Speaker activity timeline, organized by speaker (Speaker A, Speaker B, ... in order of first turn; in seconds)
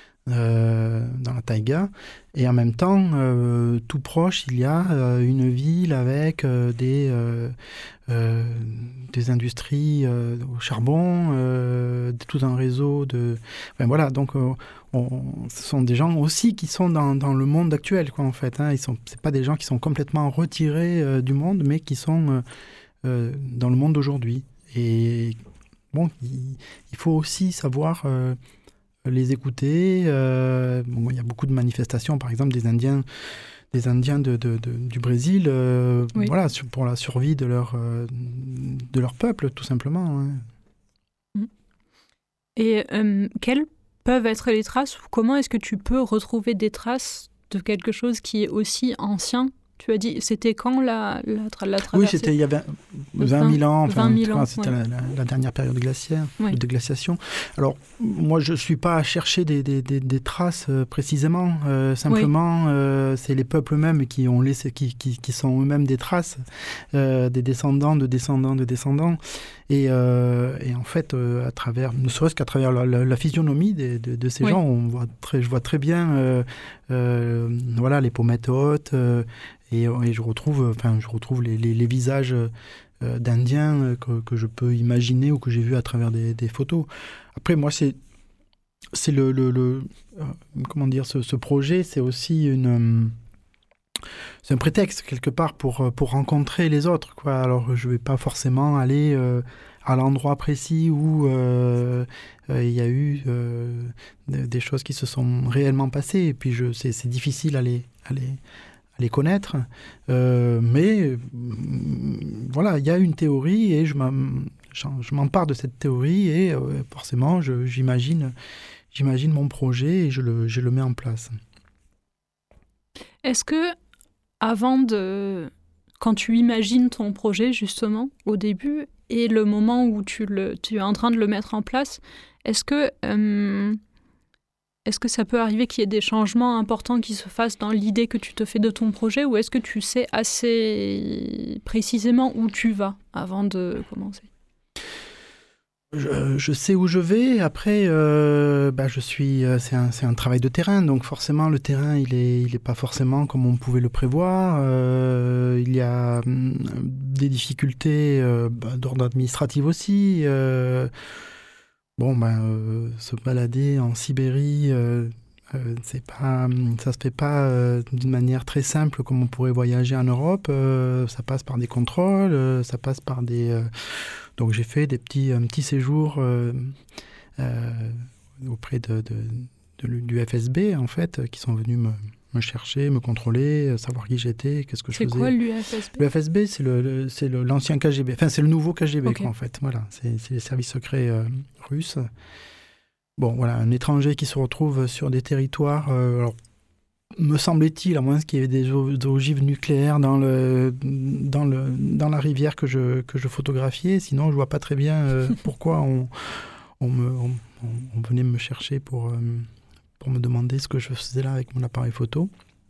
Speaker A: 0.3-7.5, 8.1-22.4, 23.0-25.4, 25.9-28.4, 29.0-33.1, 33.7-40.5, 51.9-88.0, 88.9-93.1, 94.4-108.4, 109.0-118.3, 118.9-121.3, 145.9-160.9, 162.0-176.8, 177.4-185.3, 185.9-192.1, 193.2-196.3, 197.2-212.3
Speaker B: 42.6-52.3, 53.2-54.7, 123.2-123.8, 124.4-133.8, 134.9-144.3, 184.9-186.0